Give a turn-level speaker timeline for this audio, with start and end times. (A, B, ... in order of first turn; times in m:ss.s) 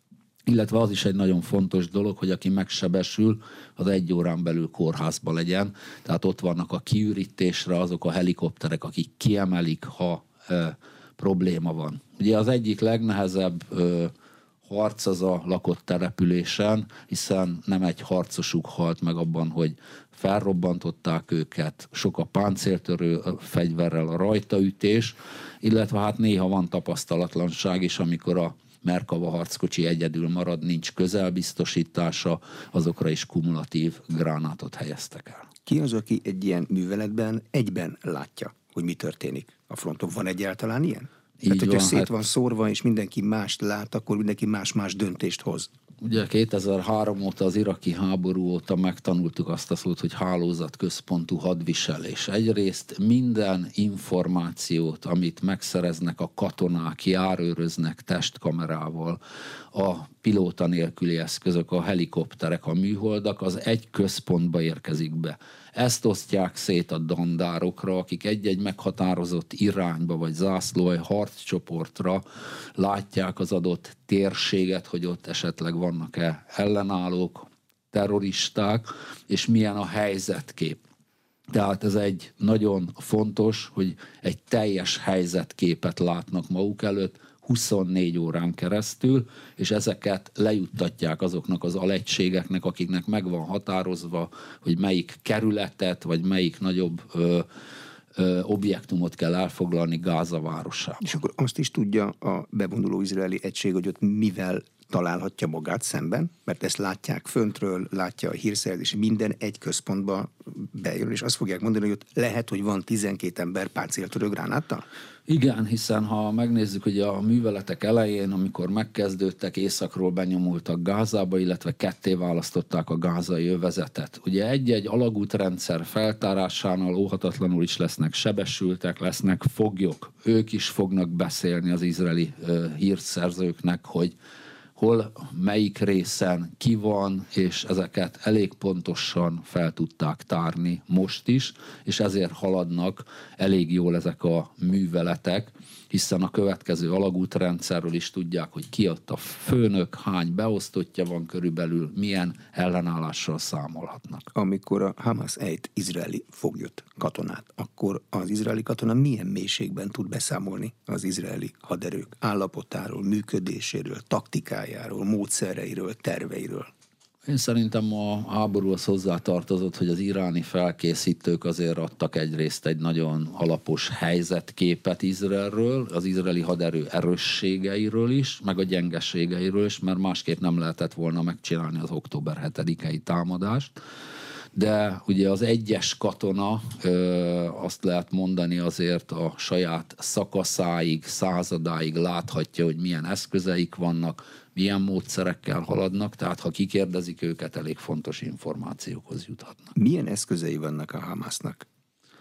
0:00.5-0:14.1 A
0:14.7-0:35.5 A
0:35.7-0:45.7 B
0:41.4-0:42.1 A
0:46.0-0:59.2 A
0:59.7-1:12.2 A
1:12.8-1:20.8 A
1:21.5-1:37.5 A
1:38.2-1:41.1 A
1:41.0-1:54.8 B
1:55.3-2:14.1 A
2:14.8-2:34.2 A
2:34.3-2:46.7 B
2:47.3-3:03.8 A
3:04.5-3:19.7 A
3:19.8-3:21.7 B